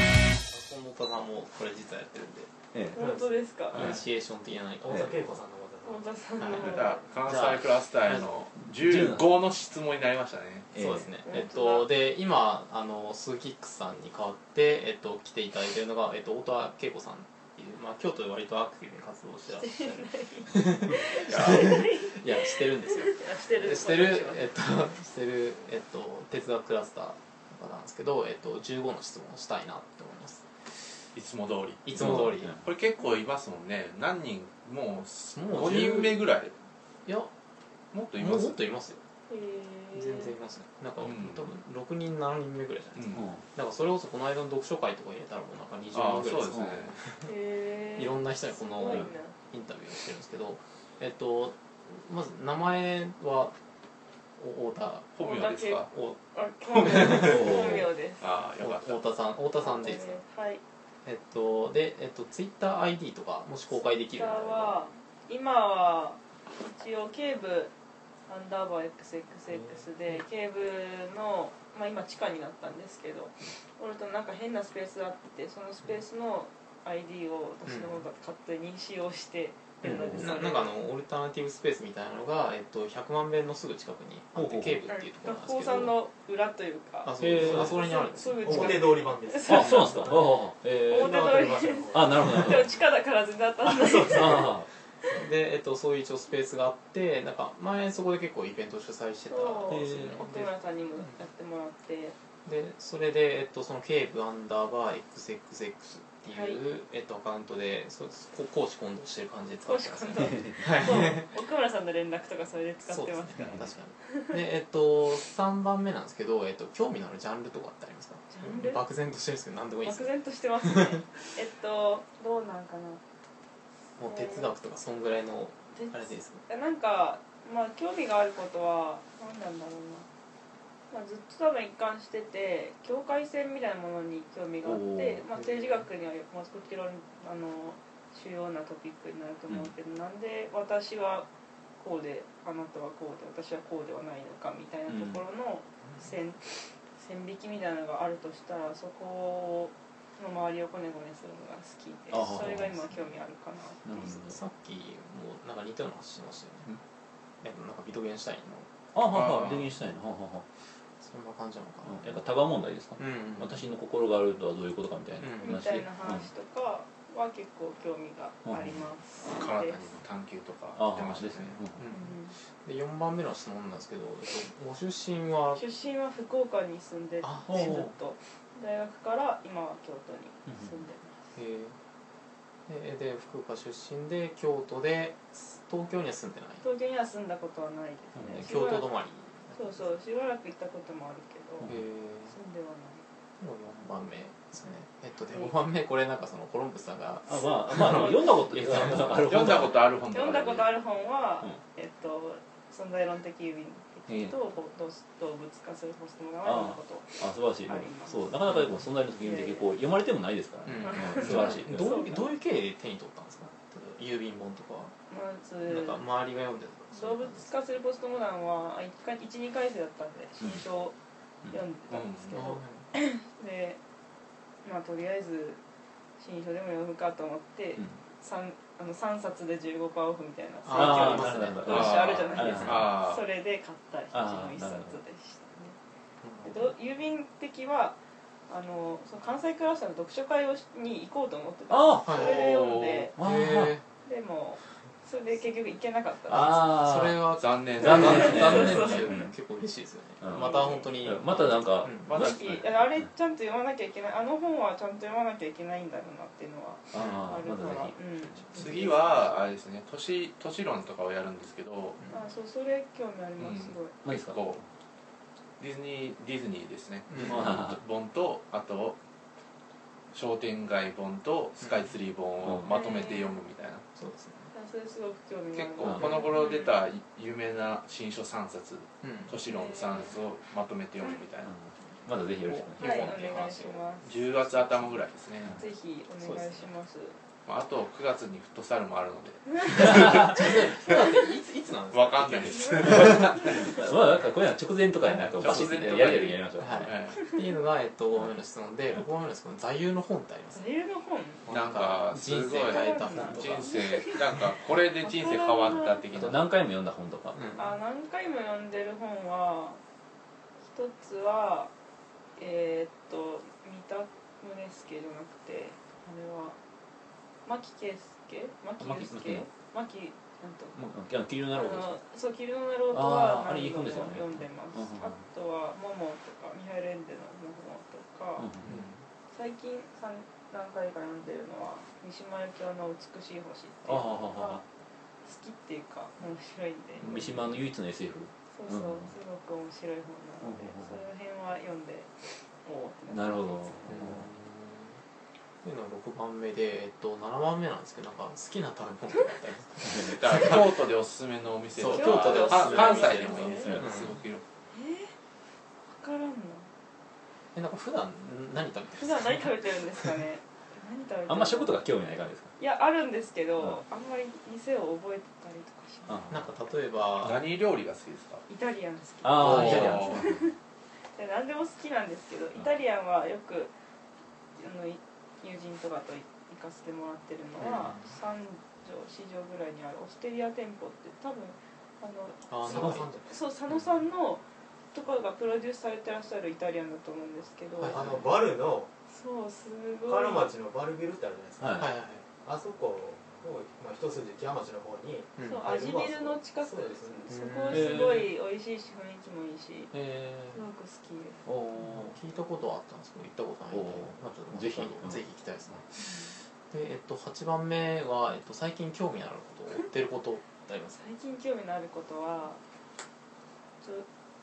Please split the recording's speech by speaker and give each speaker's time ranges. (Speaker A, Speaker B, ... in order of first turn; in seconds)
Speaker A: 0.4-2.5, 3.7-5.2, 6.4-8.3, 10.7-30.5, 31.8-32.5, 35.4-36.3, 38.1-39.0, 39.9-47.3, 47.9-53.6, 54.4-55.1, 55.9-56.2, 56.9-57.8, 58.6-60.2, 61.0-64.8, 77.7-78.0, 79.8-86.0, 87.0-89.0, 95.1-101.2, 102.4-111.3, 112.8-121.1, 124.0-126.4, 135.3-135.8, 154.0-156.8, 157.4-158.7, 161.0-162.2, 162.9-163.6, 165.2-165.7, 171.8-175.6, 177.2-177.9, 181.3-181.8, 182.7-186.6, 188.3-189.8, 191.7-192.3, 193.4-199.5, 208.4-208.8, 210.7-214.9, 215.6-217.5, 222.3-222.9, 230.6-232.7, 236.2-236.7, 242.0-242.5, 243.2-243.8, 246.7-252.1, 256.9-257.2, 267.1-267.5, 271.6-271.9, 273.9-274.5, 279.0-279.4, 282.4-283.9, 286.2-286.7, 289.7-293.2, 295.0-300.6, 301.4-303.7, 307.4-307.6, 328.7-328.9, 343.9-345.0, 345.6-350.9, 351.7-354.2, 357.5-360.1, 366.3-367.4, 369.4-370.2, 377.6-378.0, 382.5-383.4, 387.8-388.2, 391.7-392.3, 395.4-395.7, 397.3-398.0, 401.8-411.0
Speaker B: 2.7-3.0, 3.7-4.0, 8.8-9.3, 10.7-11.1, 31.9-32.6, 43.1-43.4, 46.5-46.8, 57.1-57.9, 79.8-80.3, 84.3-84.9, 87.1-87.8, 89.4-92.7, 94.1-94.7, 99.7-100.2, 110.2-110.8, 113.4-113.7, 134.6-135.2, 144.9-145.2, 152.1-152.8, 153.8-154.4, 158.9-160.4, 161.8-166.3, 168.4-168.9, 170.7-171.8, 177.5-177.9, 188.2-188.4, 197.2-199.8, 204.1-204.3, 206.4-212.3, 230.7-232.9, 234.1-235.0, 241.7-242.2, 243.2-243.8, 246.3-249.3, 250.2-253.1, 256.9-258.8, 264.0-264.6, 267.2-267.8, 272.4-272.9, 281.4-283.2, 292.9-296.9, 306.1-307.6, 318.8-319.5, 320.7-322.0, 322.9-325.2, 328.4-328.8, 333.8-334.6, 337.0-339.1, 340.4-341.0, 343.1-344.3, 349.8-350.4, 361.3-362.5, 366.1-366.5, 369.2-370.4, 382.7-383.1, 391.6-391.9, 397.7-398.3, 399.9-400.4, 401.4-402.1, 403.7-405.2
Speaker C: 2.9-3.9, 5.8-7.0, 11.2-11.9, 19.4-24.6, 39.3-40.3, 47.2-49.3, 55.2-58.3, 59.6-60.6, 63.7-67.7, 68.3-80.8, 84.9-89.9, 90.8-94.5, 99.3-102.2, 106.3-106.6, 109.6-114.3, 118.3-118.8, 119.8-123.0, 124.0-124.5, 125.7-130.1, 130.9-154.1, 165.4-170.0, 171.9-172.3, 175.5-181.3, 186.6-188.9, 189.5-191.7, 192.2-193.0, 197.8-198.1, 200.1-208.3, 209.2-209.8, 210.8-212.3, 215.1-216.0, 216.9-220.9, 221.5-223.8, 224.6-225.6, 226.2-235.8, 236.4-238.0, 238.5-243.1, 244.0-246.7, 248.0-249.3, 250.3-251.0, 252.1-259.2, 262.1-263.9, 272.6-273.4, 274.5-276.8, 279.4-280.2, 281.0-281.2, 282.8-284.2, 285.6-287.2, 292.4-293.9, 300.5-301.5, 302.5-306.0, 307.6-309.8, 310.6-311.7, 312.4-316.6, 317.4-320.8, 321.5-328.5, 329.3-334.6, 335.2-337.6, 338.5-344.2, 351.9-353.8, 354.7-355.1, 355.9-356.7, 359.0-361.8, 362.6-366.2, 368.5-370.6, 371.1-373.7, 374.6-388.0, 389.1-390.5, 395.4-401.4, 405.9-406.4, 411.0-412.6, 413.8-414.1
Speaker D: 2.9-3.4, 4.8-6.2, 88.5-90.3, 90.9-92.6, 387.9-388.9, 390.0-391.8, 392.4-397.3
Speaker E: 6.5-10.7, 21.1-21.7, 31.1-36.6, 37.9-38.6, 41.0-41.5, 43.0-43.3, 45.9-47.0, 55.1-55.9, 58.2-59.0, 159.1-159.7, 169.2-171.6, 199.2-200.8, 221.9-222.5, 231.7-233.2, 242.1-243.1, 247.4-248.7, 252.1-252.5, 258.6-262.0, 263.4-264.6, 265.6-269.0, 270.1-273.8, 275.5-281.5, 284.0-285.6, 287.4-290.9, 291.9-293.9, 295.4-297.3, 301.5-306.4, 350.0-354.4, 367.2-368.4, 369.4-370.2